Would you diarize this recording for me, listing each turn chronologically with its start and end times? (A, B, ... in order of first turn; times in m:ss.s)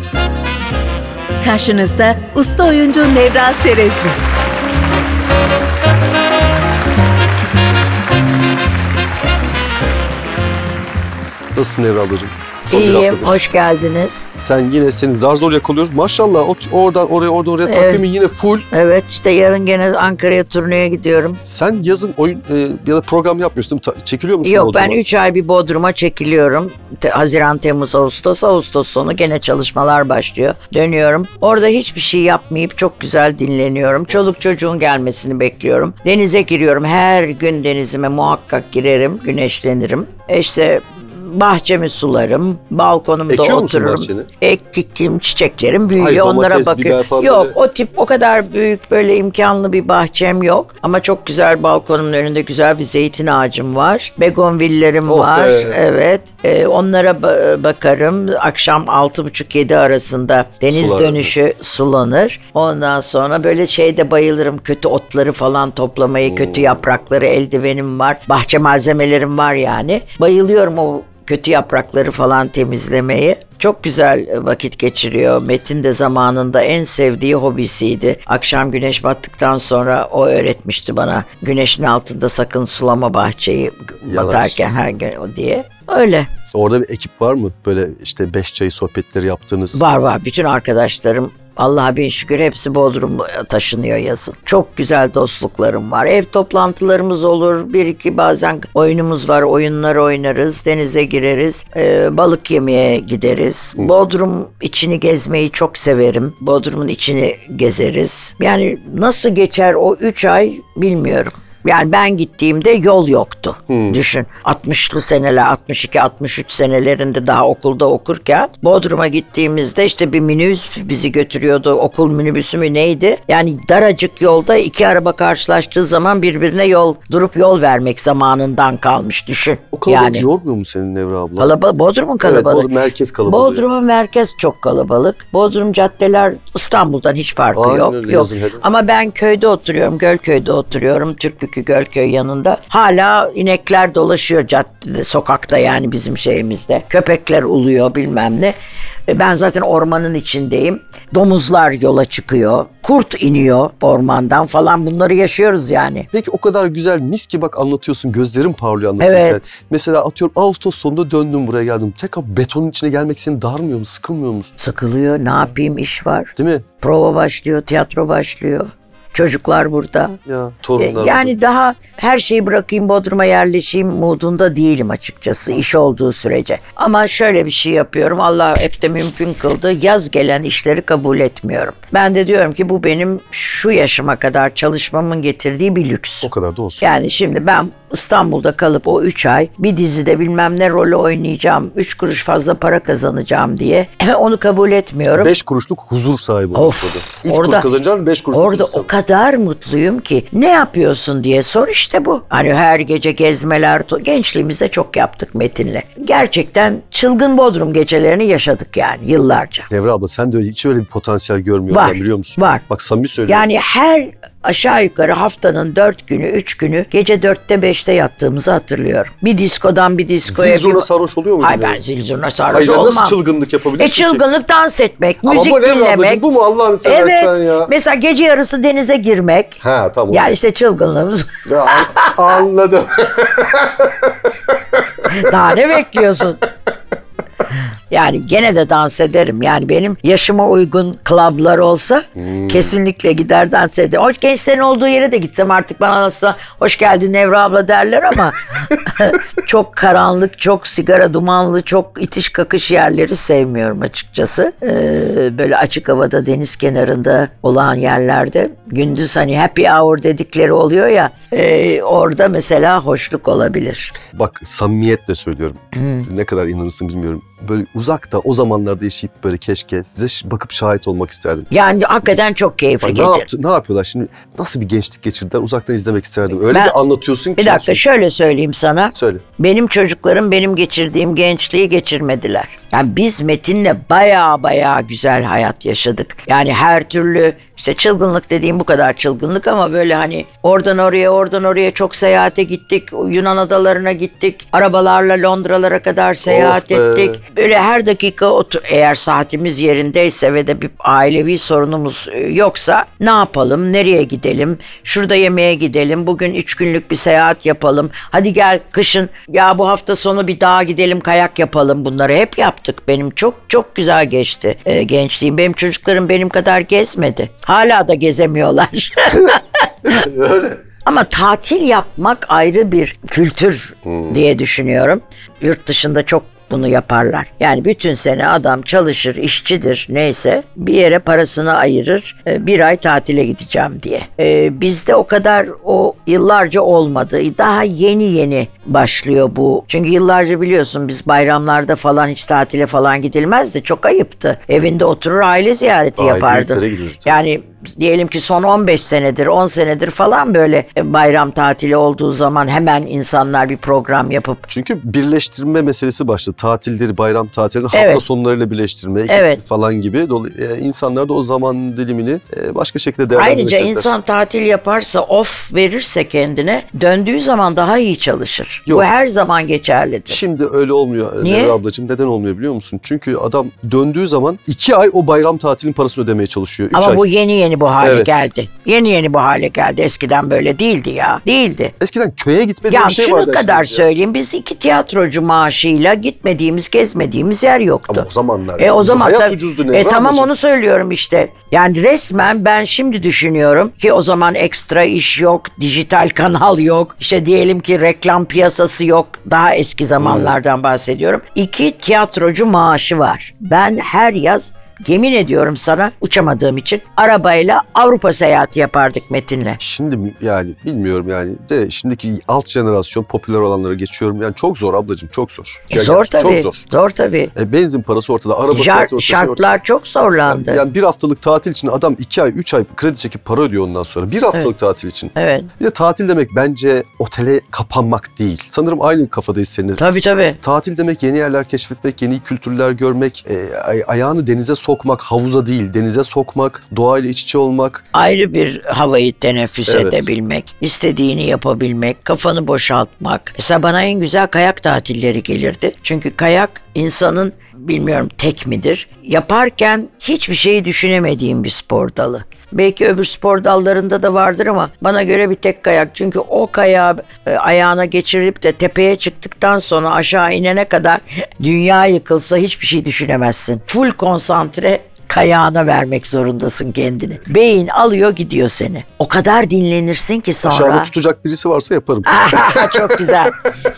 0:01.4-0:04.2 A
0:11.5-0:13.4 B
0:12.7-0:14.3 C
0:14.4-0:18.7 B
0:17.6-0:18.0 C
0:18.7-0:21.4 C
0:21.4-0:25.0 B
0:24.4-1:26.3 C
0:43.3-0:44.3 B
0:46.0-0:47.5 B
0:55.0-0:55.8 B
1:00.7-1:01.3 B
1:06.2-1:06.8 B
1:24.0-1:24.6 B
1:26.5-1:29.8 B
1:29.7-2:10.2 C
1:53.7-1:54.0 B
2:09.7-2:11.5 B
2:11.4-2:12.7 C
2:12.2-2:13.6 B
2:13.3-2:28.5 C
2:17.5-2:18.6 B
2:29.1-2:36.1 C
2:36.1-2:44.5 B
2:39.0-2:39.4 C
2:44.6-2:50.2 C
2:46.4-2:46.6 B
2:50.2-2:51.3 B
2:50.8-3:06.3 C
3:06.2-3:06.9 B
3:06.8-3:15.3 C
3:15.1-3:18.9 B
3:16.5-3:17.7 C
3:18.3-3:29.7 C
3:29.7-3:33.5 B
3:31.7-3:32.6 C
3:33.3-3:40.9 C
3:40.2-3:41.8 B
3:41.4-3:43.2 C
3:42.5-3:44.2 B
3:43.8-3:46.2 C
3:45.2-3:47.7 B
3:46.8-3:52.2 C
3:49.6-3:50.3 B
3:51.4-3:55.8 B
3:55.0-3:56.4 C
3:57.9-4:23.9 C
4:02.2-4:02.7 B
4:24.1-4:31.5 B
4:25.7-4:26.1 C
4:31.5-4:33.3 C
4:32.8-4:37.8 B
4:37.4-5:19.9 C
4:38.9-4:39.2 B
4:56.2-4:57.2 B
5:19.8-5:20.6 B
5:20.8-5:54.4 C
5:23.8-5:24.2 B
5:46.0-5:47.2 B
5:54.5-6:03.9 B
5:57.7-5:58.0 C
5:59.1-5:59.4 C
6:03.1-6:10.2 C
6:10.1-6:17.0 B
6:11.2-6:11.6 C
6:16.7-6:21.7 C
6:17.8-6:18.3 B
6:21.8-6:23.9 B
6:22.7-6:28.1 C
6:27.9-6:30.3 B
6:28.6-6:49.6 C
6:40.0-6:40.3 B
6:49.6-6:56.6 B
6:55.7-6:57.3 C
6:57.3-6:59.5 B
6:58.5-7:00.6 C
7:00.3-7:09.8 B
7:05.2-7:05.5 C
7:09.8-7:10.4 C
7:10.4-7:17.8 B
7:17.9-7:50.9 C
7:19.7-7:20.1 B
7:50.4-7:53.1 B
7:52.0-7:53.3 C